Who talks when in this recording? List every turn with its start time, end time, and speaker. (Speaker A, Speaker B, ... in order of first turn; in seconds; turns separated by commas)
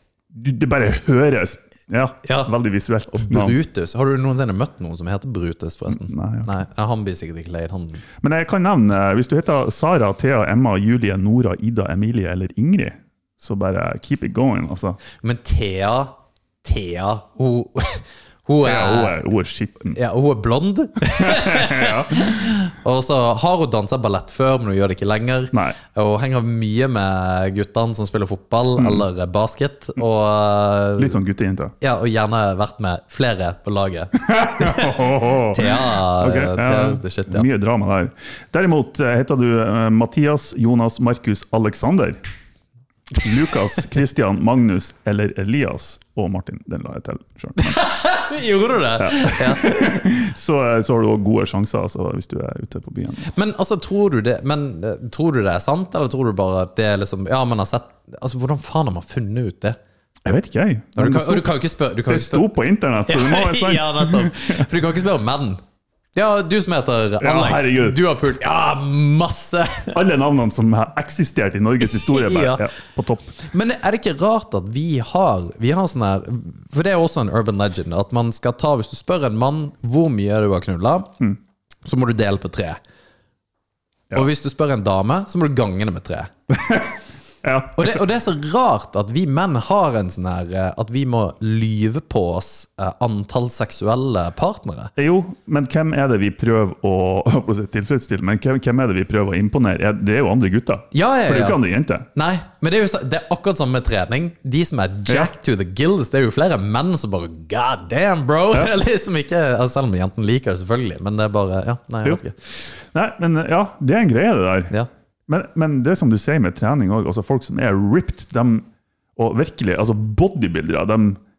Speaker A: 0.3-3.5, Speaker B: 2.2-2.5, Speaker B: 3.1-8.0, Speaker A: 5.9-6.5, Speaker A: 8.2-15.0, Speaker B: 15.2-19.2, Speaker A: 18.6-20.0, Speaker B: 19.9-31.2, Speaker A: 21.1-22.5, Speaker A: 31.0-31.7, Speaker B: 31.8-37.5, Speaker A: 34.2-42.2, Speaker A: 43.2-47.8, Speaker B: 47.6-50.0, Speaker A: 49.0-53.3, Speaker B: 53.3-59.8, Speaker A: 60.2-61.5, Speaker B: 61.0-62.5, Speaker A: 62.1-64.6, Speaker B: 63.0-65.6, Speaker B: 66.1-70.0, Speaker A: 67.2-68.0, Speaker A: 69.9-73.4, Speaker B: 72.0-72.7, Speaker B: 73.5-81.1, Speaker B: 81.8-82.8, Speaker B: 84.1-86.3, Speaker A: 86.5-88.0, Speaker B: 87.8-94.9, Speaker A: 95.0-102.1, Speaker B: 100.9-101.6, Speaker B: 102.1-112.6, Speaker A: 112.9-114.7, Speaker A: 115.3-118.6, Speaker A: 119.2-121.2